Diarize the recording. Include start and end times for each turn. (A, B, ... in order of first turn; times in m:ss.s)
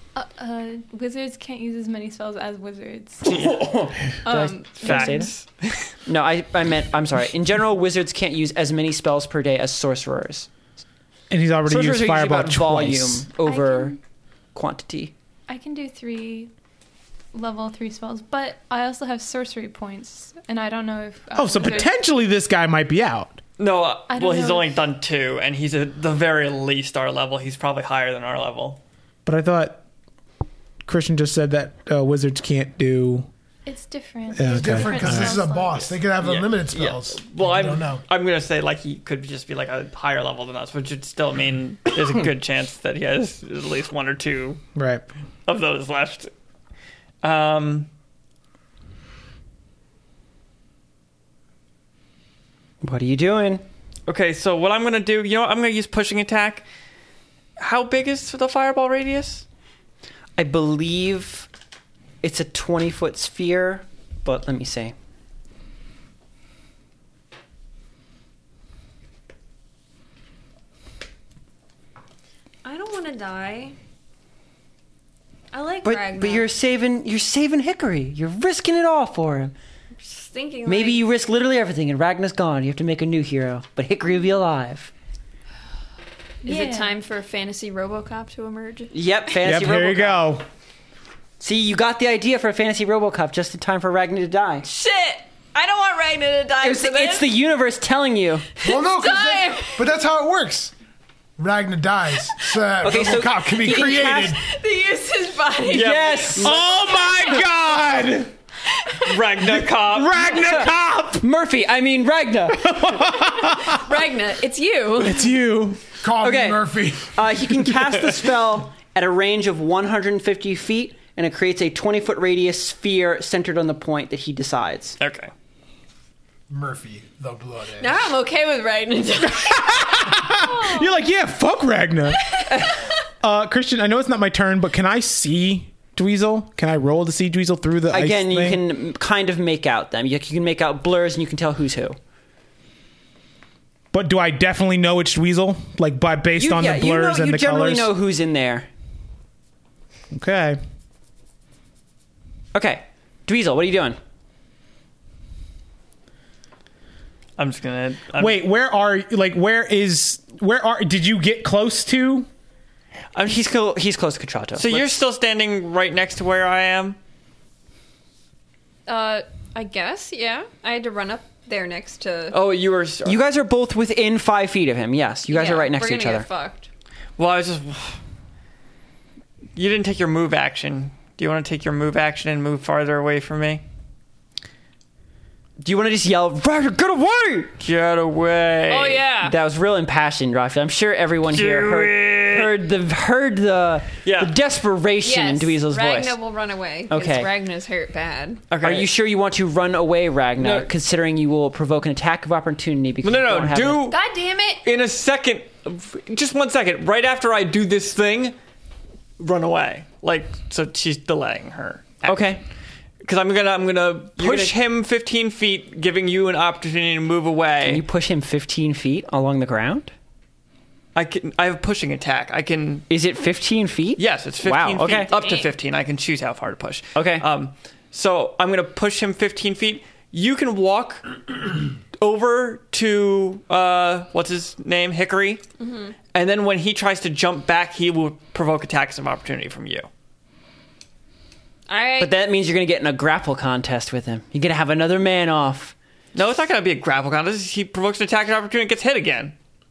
0:00.2-0:03.4 A
0:03.2-0:05.3 B
0:04.2-0:05.3 C
0:04.8-0:05.9 D
0:06.0-0:10.5 B
0:11.3-0:13.3 E
0:11.6-0:14.0 B
0:13.4-0:14.0 A
0:14.5-0:15.1 B
0:15.5-0:16.5 A
0:17.3-0:21.9 A
0:21.3-0:23.4 E
0:23.6-0:28.8 D
0:24.1-0:24.8 A
0:29.2-0:29.8 E
0:30.8-0:33.3 E
0:33.6-0:36.0 A
0:34.3-0:35.4 E
0:34.4-0:38.0 F
0:36.2-0:44.6 D
0:44.8-0:45.0 E
0:45.4-0:46.3 D
0:47.2-0:47.9 D
0:52.8-0:53.6 B
0:54.1-0:56.6 D
0:57.6-0:59.4 D
1:00.4-1:01.5 B
1:02.2-1:04.9 B
1:12.6-1:13.8 C
1:15.5-1:16.5 C
1:15.8-1:19.5 B
1:20.0-1:21.0 C
1:20.6-1:24.9 B
1:26.4-1:28.9 C
1:26.4-1:27.0 A
1:28.9-1:30.3 B
1:29.4-1:30.4 E
1:31.4-1:34.7 B
1:34.6-1:37.3 C
1:36.6-1:38.4 B
1:38.6-1:39.9 C
1:38.6-1:40.7 F
1:41.4-1:44.4 F
1:42.8-1:44.3 B
1:43.5-1:47.7 C
1:45.7-1:46.6 B
1:45.7-1:46.5 D
1:46.4-1:48.3 E
1:48.7-1:49.2 C
1:49.0-1:50.4 D
1:49.4-1:51.2 E
1:50.3-1:52.8 B
1:52.5-1:53.9 E
1:53.1-1:55.3 C
1:55.0-1:55.8 E
1:56.0-1:57.4 F
1:56.2-2:05.0 B
2:05.0-2:05.3 D
2:06.5-2:08.1 F
2:07.8-2:11.0 C
2:09.2-2:12.4 E
2:12.2-2:12.8 C
2:13.2-2:18.6 E
2:17.9-2:22.0 B
2:23.9-2:27.9 E
2:26.4-2:28.7 B
2:30.1-2:30.6 E
2:32.5-2:34.0 B
2:37.4-2:38.4 D
2:38.2-2:42.3 E
2:43.1-2:45.0 B
2:44.6-2:47.0 D
2:48.8-2:52.4 C
2:52.3-2:53.2 D
2:53.0-2:56.3 B
2:55.3-2:56.7 C
2:57.2-2:58.0 D
2:59.6-3:03.6 D
3:05.6-3:07.6 B
3:07.6-3:09.0 D
3:08.7-3:09.3 C
3:09.2-3:16.2 B
3:11.3-3:12.5 D
3:14.0-3:14.3 D
3:15.0-3:18.4 C
3:16.9-3:17.3 B
3:18.5-3:18.9 D
3:18.6-3:23.9 B
3:20.4-3:20.7 D
3:23.0-3:24.0 D
3:23.9-3:24.6 C
3:24.6-3:28.4 D
3:29.2-3:32.4 D
3:32.0-3:32.4 B
3:33.0-3:37.8 D
3:34.2-3:34.6 B
3:37.6-3:39.9 B
3:40.9-3:42.8 D
3:42.9-3:45.1 B
3:44.0-3:51.1 D
3:45.1-3:45.5 C
3:46.9-3:47.2 B
3:52.0-3:55.4 D
3:55.6-3:56.0 C
3:56.1-3:59.9 D
4:01.7-4:02.1 C
4:02.0-4:05.7 B
4:06.1-4:09.3 D